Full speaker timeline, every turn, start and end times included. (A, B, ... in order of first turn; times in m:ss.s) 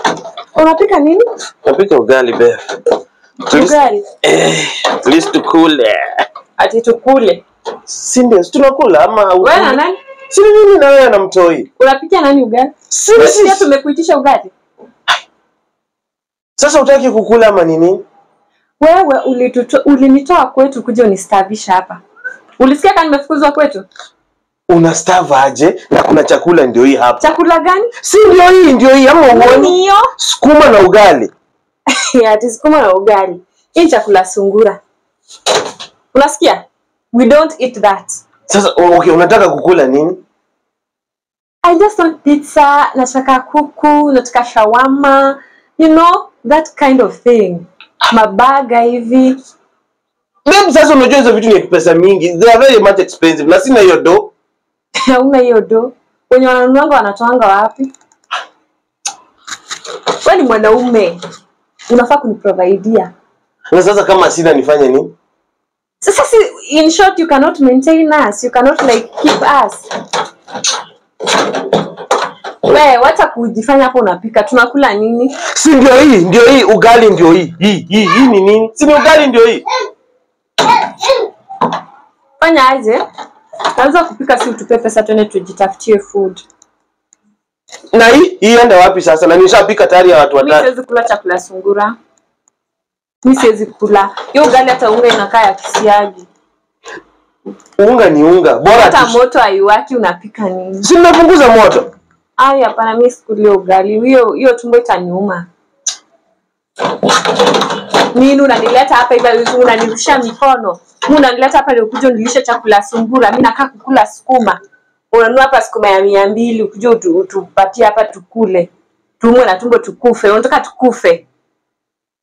0:00.5-0:01.2 A
0:01.6-0:02.6 B
0:03.5-0:04.0 A
0:03.5-0:06.2 B
0:06.6-0:07.4 A
0:07.9-0:09.8 B
0:09.4-0:10.0 A
0:10.3-0:11.7 B
0:11.8-0:14.5 A
0:12.9-0:13.7 B
0:16.6-0:18.0 B
0:18.8-0:22.0 A
0:22.6-0:23.8 A
0:24.7-0:27.2 B
0:27.2-0:27.9 A
0:28.0-0:31.3 B
0:29.3-0:30.1 A
0:32.0-0:34.8 A
0:36.1-0:38.2 A
0:38.5-0:40.2 B
0:41.6-0:49.4 A
0:50.4-0:54.3 B
0:55.1-0:57.9 A
1:00.2-1:01.2 A
1:01.9-1:03.1 A
1:03.7-1:05.1 B
1:06.0-1:09.9 A
1:12.6-1:15.4 A
1:15.5-1:19.6 B
1:22.4-1:23.0 A
1:23.8-1:26.4 A
1:27.9-1:30.6 B
1:30.4-1:31.9 A
1:33.2-1:36.3 A
1:37.8-1:39.2 B
1:38.7-1:40.9 A
1:40.8-1:41.9 B
1:42.4-1:45.5 A
1:47.8-1:54.6 A
1:55.1-2:01.2 A